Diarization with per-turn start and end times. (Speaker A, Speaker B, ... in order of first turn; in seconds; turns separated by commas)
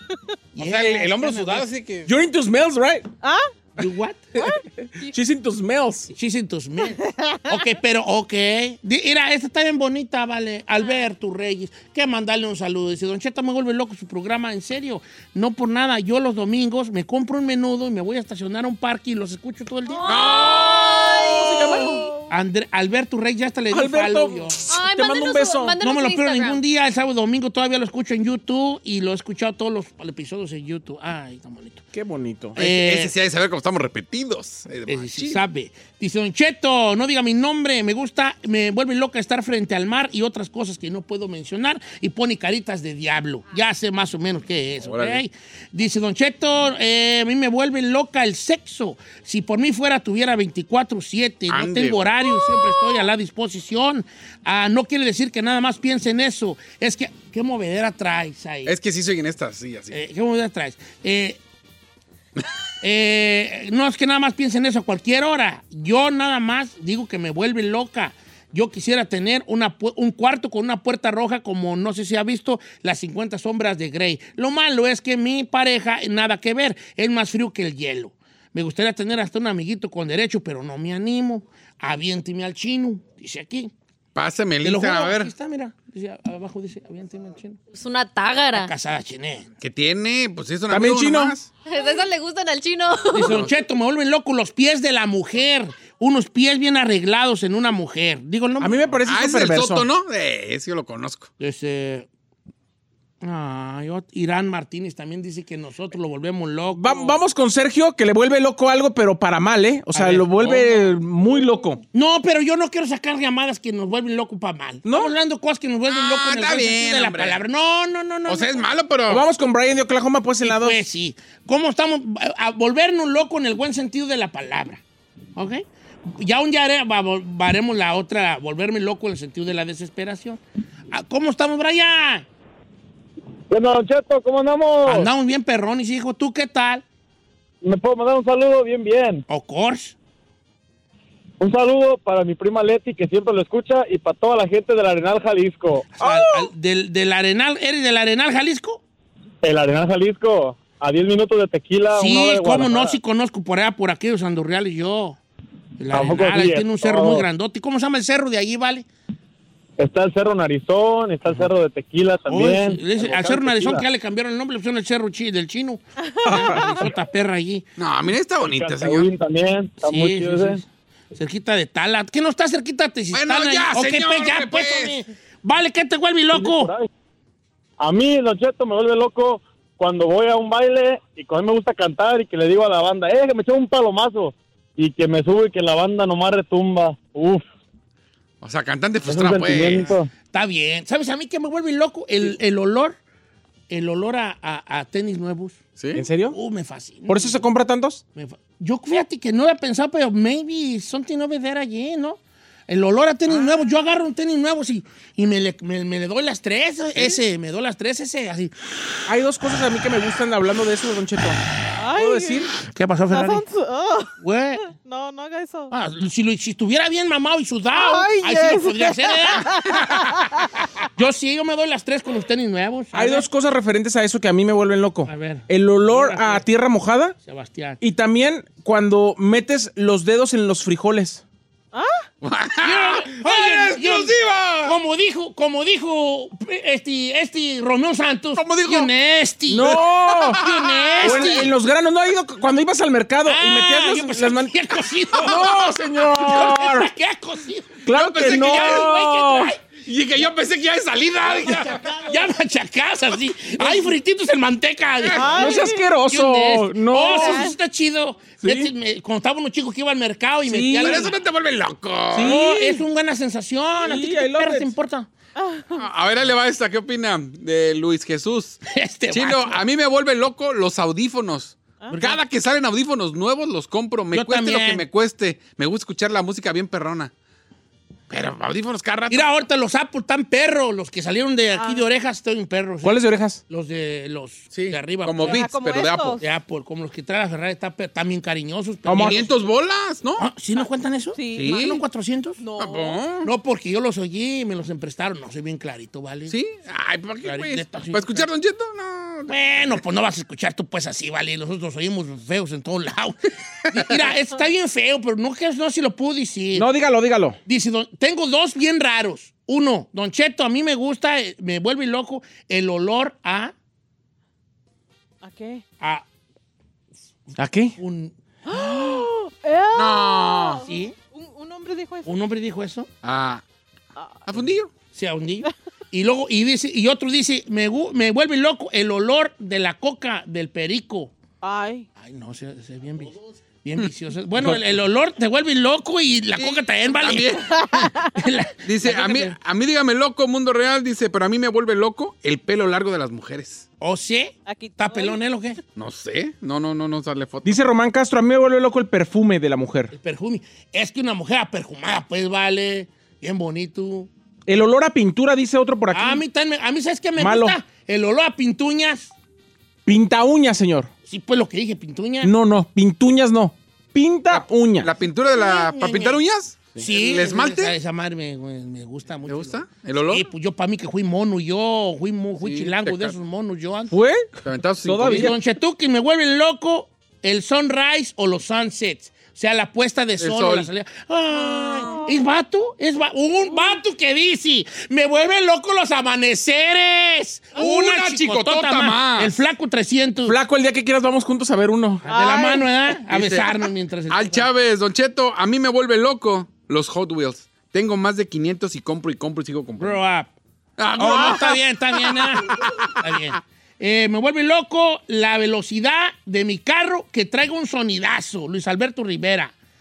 Speaker A: 0.5-1.6, Speaker B: 0.6-2.1, Speaker C: 2.0-3.1, Speaker A: 3.8-4.3, Speaker D: 4.3-5.1, Speaker C: 5.0-6.1, Speaker A: 6.1-20.1, Speaker D: 6.9-7.5, Speaker E: 19.9-22.2, Speaker B: 20.1-22.0, Speaker C: 21.4-22.0, Speaker A: 22.3-24.6, Speaker C: 23.7-25.8, Speaker E: 24.7-26.6, Speaker A: 25.8-31.8, Speaker C: 31.9-32.6, Speaker A: 32.6-33.1, Speaker B: 32.6-35.4, Speaker A: 34.9-58.7, Speaker B: 44.8-45.2, Speaker B: 51.5-52.0, Speaker B: 58.6-60.0, Speaker A: 59.9-61.4, Speaker A: 62.8-83.7, Speaker B: 84.1-85.3, Speaker A: 84.6-87.6, Speaker E: 87.7-88.7, Speaker A: 88.5-89.5, Speaker B: 89.6-91.5, Speaker C: 90.7-91.3, Speaker E: 91.7-93.5, Speaker A: 93.1-98.9, Speaker B: 93.2-93.5, Speaker C: 98.6-99.9, Speaker B: 99.0-101.3, Speaker A: 101.4-102.1, Speaker A: 103.2-107.2, Speaker C: 106.7-111.8, Speaker A: 109.9-110.9, Speaker A: 111.9-118.7, Speaker C: 114.8-115.1, Speaker B: 115.9-117.4, Speaker B: 118.2-119.2, Speaker C: 119.1-120.8, Speaker A: 120.4-124.8, Speaker A: 125.3-132.3, Speaker F: 133.5-135.1, Speaker A: 134.8-136.8, Speaker F: 137.6-139.2, Speaker A: 139.3-139.9, Speaker F: 141.4-145.9, Speaker A: 145.9-148.8, Speaker C: 146.0-146.5, Speaker F: 149.4-153.0, Speaker A: 151.9-155.2, Speaker A: 155.8-158.8, Speaker F: 155.9-157.2, Speaker F: 159.8-163.8, Speaker A: 162.3-167.7, Speaker D: 166.0-166.9, Speaker C: 166.2-166.7, Speaker B: 167.8-169.1, Speaker F: 168.4-170.6, Speaker A: 169.8-176.7, Speaker B: 173.1-175.0, Speaker F: 176.3-176.9, Speaker F: 177.8-187.4, Speaker B: 188.4-189.9, Speaker F: 189.0-190.1, Speaker A: 190.3-193.0, Speaker A: 193.7-195.6, Speaker B: 195.8-196.0, Speaker C: 195.9-196.3, Speaker A: 196.3-197.4, Speaker C: 197.1-198.0, Speaker A: 198.1-208.5, Speaker C: 209.1-211.4, Speaker D: 211.8-212.5, Speaker C: 211.9-212.5, Speaker A: 212.7-213.4, Speaker D: 213.1-215.7, Speaker A: 214.2-214.7, Speaker A: 215.7-220.1, Speaker D: 217.7-220.5, Speaker A: 220.8-223.2, Speaker C: 222.9-227.1, Speaker A: 225.1-226.4, Speaker A: 227.2-227.8, Speaker C: 227.8-231.2, Speaker D: 231.7-232.1, Speaker B: 232.2-234.8, Speaker A: 232.6-241.5, Speaker B: 238.3-238.9, Speaker C: 239.5-240.4, Speaker B: 240.2-241.3, Speaker C: 241.0-246.9, Speaker A: 243.2-249.6, Speaker C: 247.8-249.5, Speaker B: 247.9-249.1, Speaker B: 249.7-252.0, Speaker A: 251.4-261.1, Speaker C: 253.6-253.9, Speaker B: 255.0-255.3, Speaker D: 255.1-255.9, Speaker C: 255.3-257.5, Speaker D: 257.0-257.6, Speaker C: 258.4-258.7, Speaker C: 260.4-261.1, Speaker B: 260.8-262.3, Speaker C: 262.1-262.8, Speaker A: 262.2-265.1, Speaker C: 263.8-264.7, Speaker D: 265.4-265.8, Speaker B: 265.7-268.6, Speaker A: 268.7-269.6, Speaker B: 269.1-277.1, Speaker A: 271.9-272.2, Speaker A: 274.1-274.9, Speaker B: 278.1-279.2, Speaker A: 279.1-285.5, Speaker D: 281.5-281.8, Speaker C: 282.8-283.4, Speaker B: 284.5-286.2, Speaker D: 285.2-286.2, Speaker A: 286.2-289.4, Speaker C: 288.9-289.2, Speaker B: 288.9-290.3, Speaker A: 290.2-292.4, Speaker D: 291.1-291.8, Speaker B: 291.3-291.8, Speaker D: 292.4-293.0, Speaker B: 292.6-293.3, Speaker A: 293.2-296.4, Speaker B: 296.3-299.4, Speaker A: 297.2-298.3, Speaker A: 299.3-306.7, Speaker C: 306.5-307.4, Speaker A: 307.4-313.5, Speaker D: 315.2-315.6, Speaker A: 315.8-316.0, Speaker C: 317.4-317.8, Speaker A: 317.8-318.7, Speaker D: 318.5-322.1, Speaker B: 319.7-320.6, Speaker A: 320.6-320.9, Speaker A: 322.0-322.9, Speaker B: 323.0-323.4, Speaker D: 323.9-324.3, Speaker B: 324.2-324.7, Speaker A: 324.9-331.1, Speaker D: 331.4-331.9, Speaker A: 331.9-339.4, Speaker C: 334.4-334.6, Speaker B: 336.4-337.6, Speaker D: 337.5-338.1, Speaker B: 338.6-343.7, Speaker A: 343.8-345.6, Speaker D: 344.4-345.2, Speaker B: 345.8-347.6, Speaker C: 347.4-349.9, Speaker A: 349.9-354.1, Speaker C: 354.5-356.2, Speaker A: 355.9-359.1, Speaker C: 357.2-357.6, Speaker C: 359.9-360.9, Speaker A: 361.1-362.3, Speaker C: 362.2-364.9, Speaker B: 364.3-367.8, Speaker A: 365.2-366.2, Speaker A: 366.7-373.9, Speaker B: 369.3-370.3, Speaker B: 372.4-373.1, Speaker C: 373.9-374.3, Speaker B: 374.4-375.3, Speaker C: 374.8-375.3, Speaker A: 375.0-390.4, Speaker B: 380.2-380.7, Speaker D: 381.3-382.2, Speaker D: 383.5-383.8, Speaker B: 387.5-389.4, Speaker C: 390.2-392.1, Speaker D: 392.1-392.9, Speaker A: 392.1-394.5, Speaker B: 393.1-400.0, Speaker A: 399.8-400.3, Speaker B: 400.8-403.3, Speaker A: 400.9-409.5